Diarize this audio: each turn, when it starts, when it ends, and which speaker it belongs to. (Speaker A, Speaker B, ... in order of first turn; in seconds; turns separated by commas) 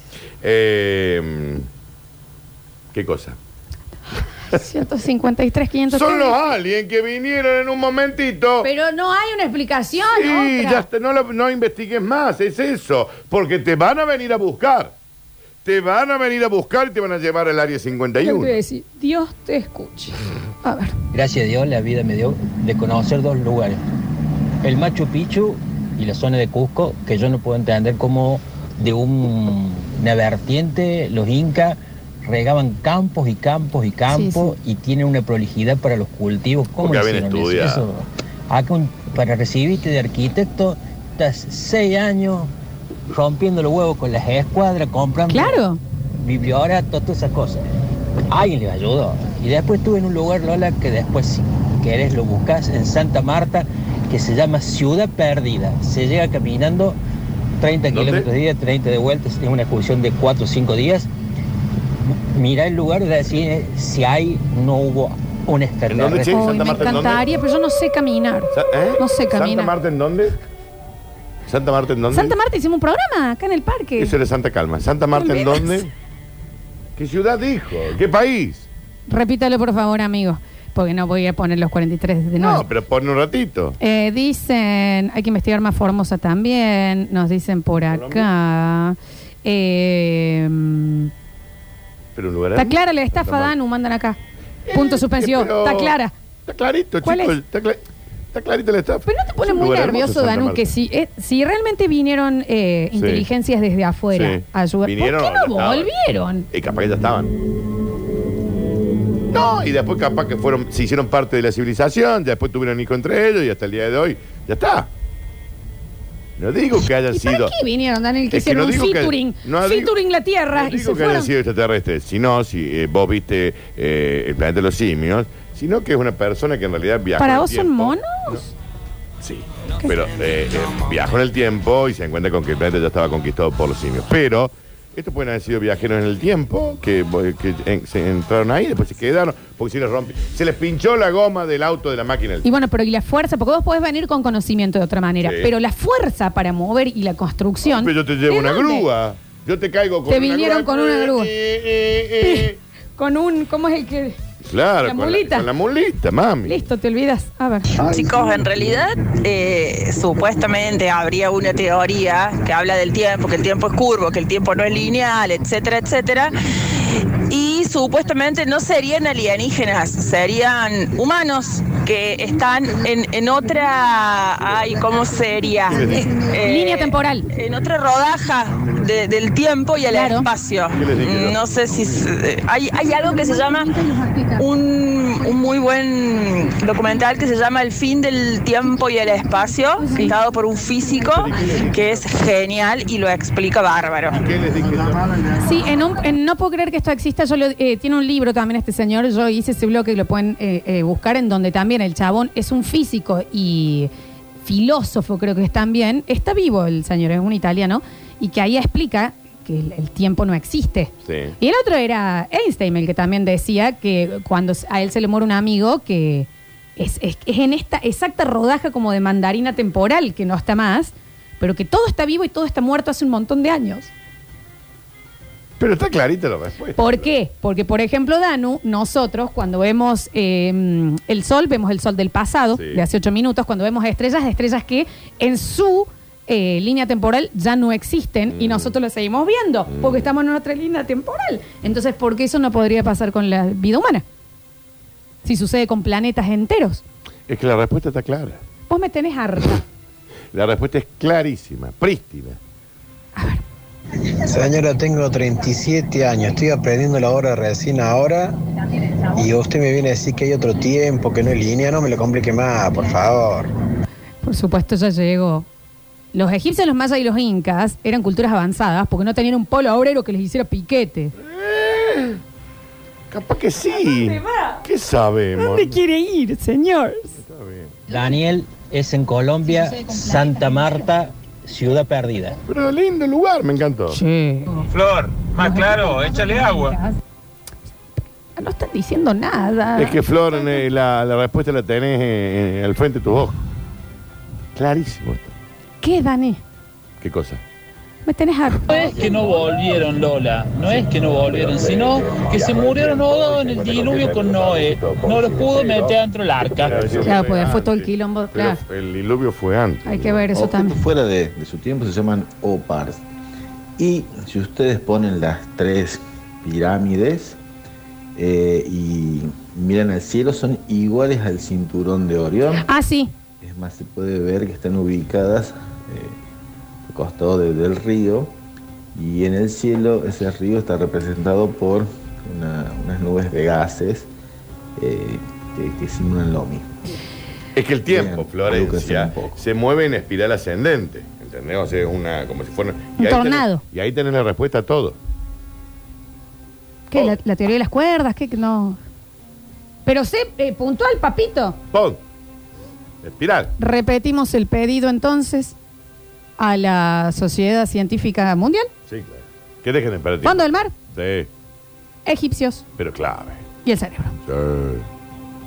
Speaker A: 0.4-1.7, Speaker A: 2.9-3.4, Speaker B: 4.5-6.5, Speaker A: 5.9-8.7, Speaker B: 8.6-10.9, Speaker A: 10.1-14.9, Speaker A: 15.7-18.6, Speaker B: 18.2-20.9, Speaker C: 21.1-23.8, Speaker C: 24.6-42.5, Speaker B: 34.1-34.6, Speaker A: 36.8-37.9, Speaker C: 43.1-45.6, Speaker B: 45.3-45.8, Speaker C: 46.2-47.6, Speaker C: 48.3-57.0, Speaker C: 57.6-61.1, Speaker A: 57.9-58.3, Speaker C: 62.1-66.4, Speaker A: 65.9-67.2, Speaker B: 66.3-69.7, Speaker A: 68.5-70.4, Speaker A: 71.5-72.4, Speaker B: 72.1-74.1, Speaker A: 74.0-75.9, Speaker B: 75.1-75.9, Speaker A: 77.0-78.7, Speaker B: 79.1-82.7, Speaker A: 82.4-83.8, Speaker B: 83.8-91.1, Speaker A: 87.9-88.3, Speaker A: 92.2-93.5, Speaker B: 92.6-94.2, Speaker A: 94.7-96.0, Speaker B: 94.7-96.1, Speaker A: 96.5-100.7, Speaker B: 97.0-97.4, Speaker B: 99.1-106.5, Speaker A: 102.9-103.3, Speaker A: 104.1-105.9, Speaker A: 106.5-107.3, Speaker A: 109.3-114.9, Speaker A: 116.4-117.5, Speaker B: 117.1-121.3, Speaker A: 118.3-119.9, Speaker A: 120.5-128.4, Speaker B: 127.2-128.5, Speaker A: 129.2-142.5, Speaker B: 142.4-148.9, Speaker A: 145.2-145.5, Speaker A: 147.6-152.6, Speaker B: 150.1-151.3, Speaker B: 152.2-154.2, Speaker A: 154.4-156.6, Speaker B: 154.8-155.5, Speaker B: 156.4-157.8, Speaker D: 157.8-183.8, Speaker A: 175.7-176.2, Speaker B: 175.7-177.3, Speaker B: 179.9-180.3, Speaker A: 180.7-181.8, Speaker D: 184.4-194.3, Speaker A: 191.0-192.1, Speaker A: 194.1-195.2, Speaker B: 195.4-203.9, Speaker B: 204.4-223.9, Speaker A: 211.1-211.4, Speaker A: 225.6-227.1, Speaker B: 226.8-244.0, Speaker A: 232.6-232.8, Speaker A: 238.3-238.8, Speaker A: 239.7-240.1, Speaker B: 245.2-246.8, Speaker A: 247.3-248.4, Speaker B: 248.7-249.6, Speaker A: 250.3-252.4, Speaker B: 253.2-253.4, Speaker E: 254.2-258.4, Speaker E: 259.2-263.5, Speaker B: 264.2-265.5, Speaker B: 266.1-271.1, Speaker A: 271.2-272.2, Speaker A: 273.1-275.8, Speaker B: 273.8-274.6, Speaker B: 275.4-277.1, Speaker A: 277.2-277.8, Speaker C: 277.9-282.4, Speaker A: 282.5-284.0, Speaker B: 283.9-284.7, Speaker F: 284.7-286.8, Speaker B: 285.4-286.9, Speaker B: 288.4-290.6, Speaker A: 289.8-293.4, Speaker A: 294.6-295.3, Speaker B: 295.8-296.4, Speaker A: 297.0-297.4, Speaker B: 298.1-299.1, Speaker G: 298.7-307.0, Speaker A: 302.0-304.8, Speaker A: 306.6-310.2, Speaker B: 307.0-308.6, Speaker B: 309.9-310.8, Speaker H: 310.3-313.0, Speaker H: 313.8-317.4, Speaker H: 318.2-322.7, Speaker B: 322.6-323.1, Speaker H: 323.4-326.2, Speaker H: 326.9-328.3, Speaker H: 328.9-334.1, Speaker H: 334.8-336.7, Speaker A: 337.6-345.0, Speaker H: 337.9-339.4, Speaker B: 343.0-343.6, Speaker B: 346.9-348.8, Speaker B: 349.9-351.6, Speaker A: 351.7-352.0, Speaker A: 353.0-353.5, Speaker B: 353.6-355.6, Speaker B: 356.4-358.7, Speaker A: 358.9-361.3, Speaker B: 360.2-360.7, Speaker B: 362.1-362.6, Speaker A: 362.8-363.4, Speaker B: 363.6-364.2, Speaker A: 364.2-364.9